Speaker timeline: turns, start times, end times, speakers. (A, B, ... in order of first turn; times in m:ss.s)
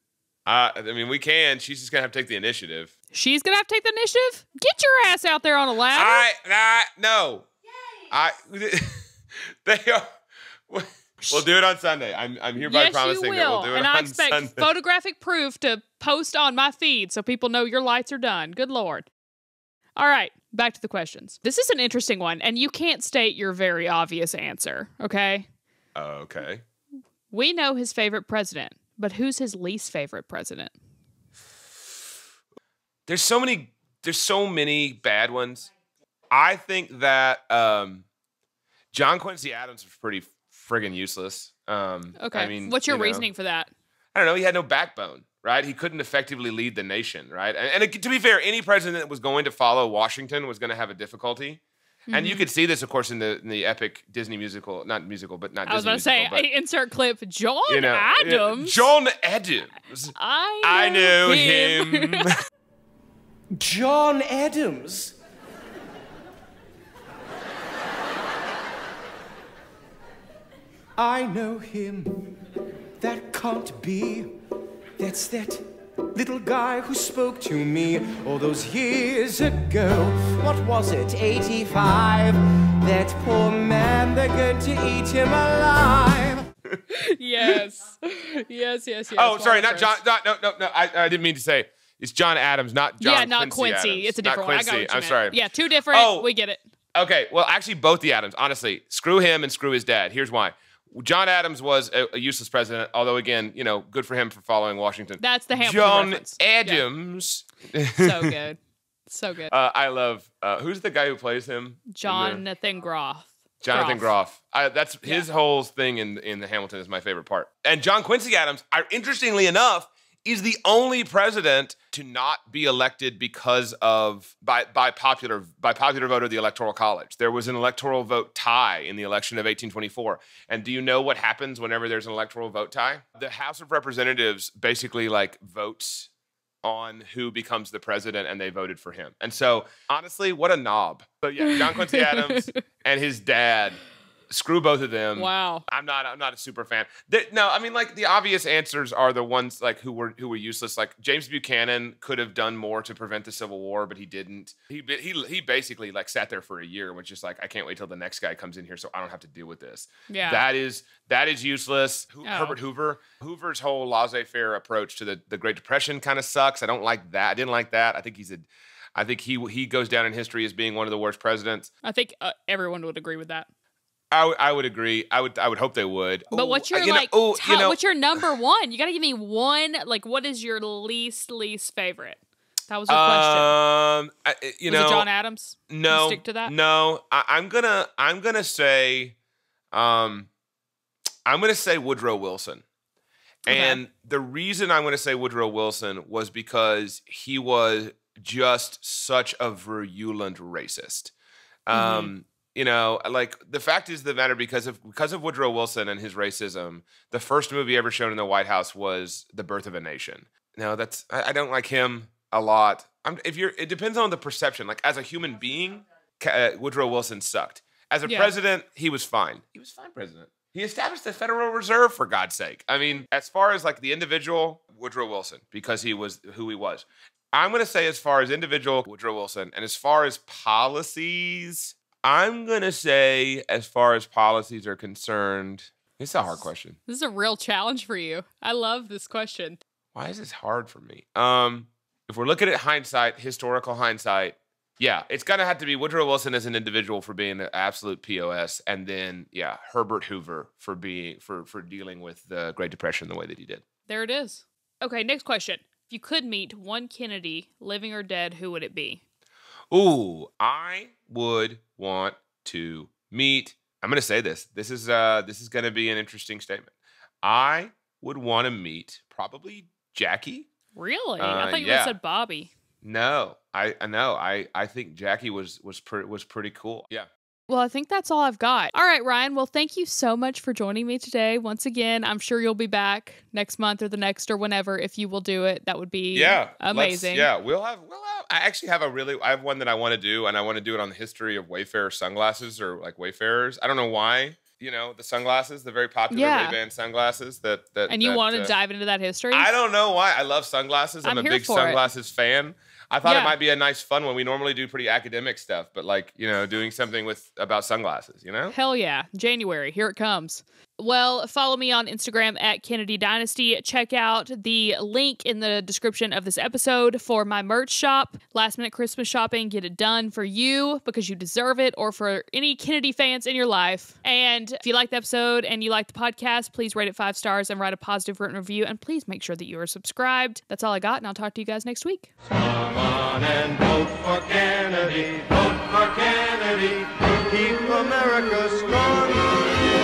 0:00.4-0:02.9 A
0:03.1-0:06.2 B
0:05.9-0:07.5 A
0:08.1-0:10.1 A
0:10.7-0:14.7 A
0:12.6-0:19.1 B
0:20.0-0:25.5 B
0:25.9-0:26.6 A
0:27.3-0:30.7 B
0:33.1-0:35.7 A
0:36.3-0:38.0 A
0:38.9-0:43.3 A
0:42.2-0:43.7 B
0:44.1-0:56.5 A
0:52.1-0:52.4 B
0:55.6-0:58.8 B
0:57.7-1:02.3 A
1:00.1-1:02.3 B
1:03.8-1:05.1 C
1:11.2-1:12.4 C
1:13.0-1:14.3 C
1:15.0-1:15.6 C
1:16.2-1:26.4 C
1:26.9-1:30.0 B
1:29.1-1:36.3 A
1:33.0-1:36.6 B
1:36.9-1:48.3 A
1:45.2-1:46.8 B
1:48.0-1:49.5 B
1:49.5-1:52.4 A
1:51.9-1:54.1 B
1:53.6-2:16.1 A
2:16.6-2:51.7 A
2:21.4-2:22.6 B
2:25.2-2:25.6 B
2:40.1-2:40.4 B
2:42.2-2:42.6 B
2:51.8-2:53.5 B
2:54.1-2:57.8 A
2:56.3-3:03.6 B
3:02.9-3:05.1 A
3:04.6-3:06.5 B
3:05.7-3:09.2 A
3:09.7-3:10.3 A
3:11.2-3:12.6 A
3:13.4-3:21.1 A
3:13.5-3:13.8 B
3:21.7-3:56.8 A
3:21.7-3:22.1 B
3:38.0-3:38.3 B
3:56.9-3:59.6 B
3:59.9-4:13.6 A
4:13.9-4:19.0 B
4:19.7-4:26.7 A
4:27.2-4:30.5 A
4:30.7-4:32.5 B
4:31.2-4:31.9 A
4:32.8-4:37.1 A
4:37.5-4:47.3 B
4:46.1-4:58.5 A
4:56.1-4:56.6 B
4:57.9-4:59.5 B
4:59.3-5:08.5 A
5:01.0-5:01.8 B
5:03.0-5:03.3 B
5:08.5-5:32.1 B
5:32.3-5:39.7 D